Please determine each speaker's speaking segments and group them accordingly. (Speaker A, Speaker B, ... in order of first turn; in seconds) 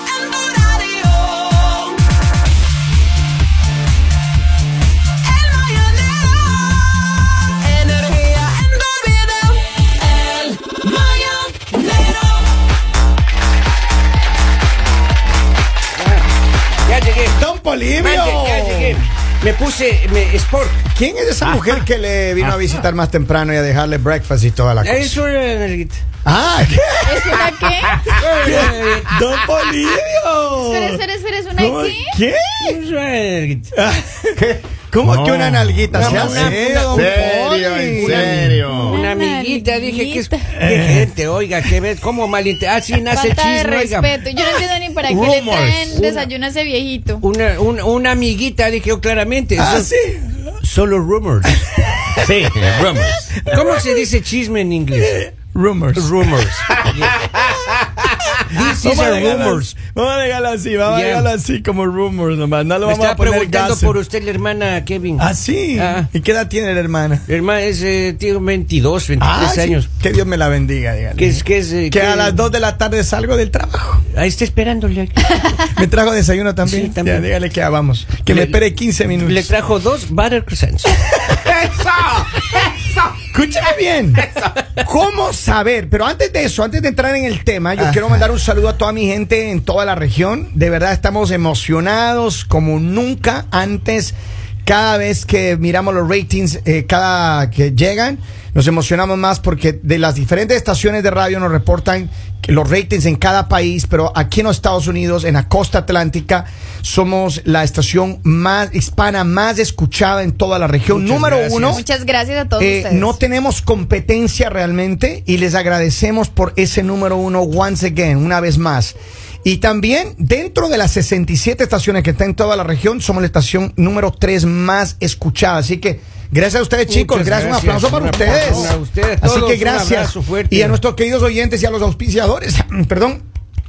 Speaker A: 0.5-1.3, 7.8-12.2, 16.0-16.3, 16.9-17.4, 18.0-20.8, 24.8-26.0, 28.2-29.2, 32.6-33.7, 35.9-37.4, 37.9-44.1, 45.9-46.3, 47.2-49.9, 50.6-51.5, 53.5-55.2, 56.0-57.2, 58.5-59.7, 60.8-61.3, 62.8-66.1, 67.3-69.9, 71.2-72.4, 74.1-75.7, 76.6-77.3, 78.3-78.6, 79.1-81.1, 110.9-111.8, 126.9-130.8
Speaker B: 17.3-19.0, 20.9-25.2, 26.2-27.5, 28.1-31.0, 31.6-32.8, 33.7-38.6, 40.6-41.1, 49.5-50.4, 51.5-52.3, 53.3-53.9, 55.0-56.5, 58.7-64.0, 65.2-67.2, 69.2-74.0, 75.7-79.5, 83.3-84.2, 84.8-111.8, 112.6-133.2
Speaker C: 21.4-21.8, 34.4-39.0, 45.1-46.0, 52.2-53.3, 57.3-58.2, 81.3-83.0
Speaker D: 27.1-28.0, 30.6-32.2, 38.7-40.5, 43.1-47.2, 111.7-113.2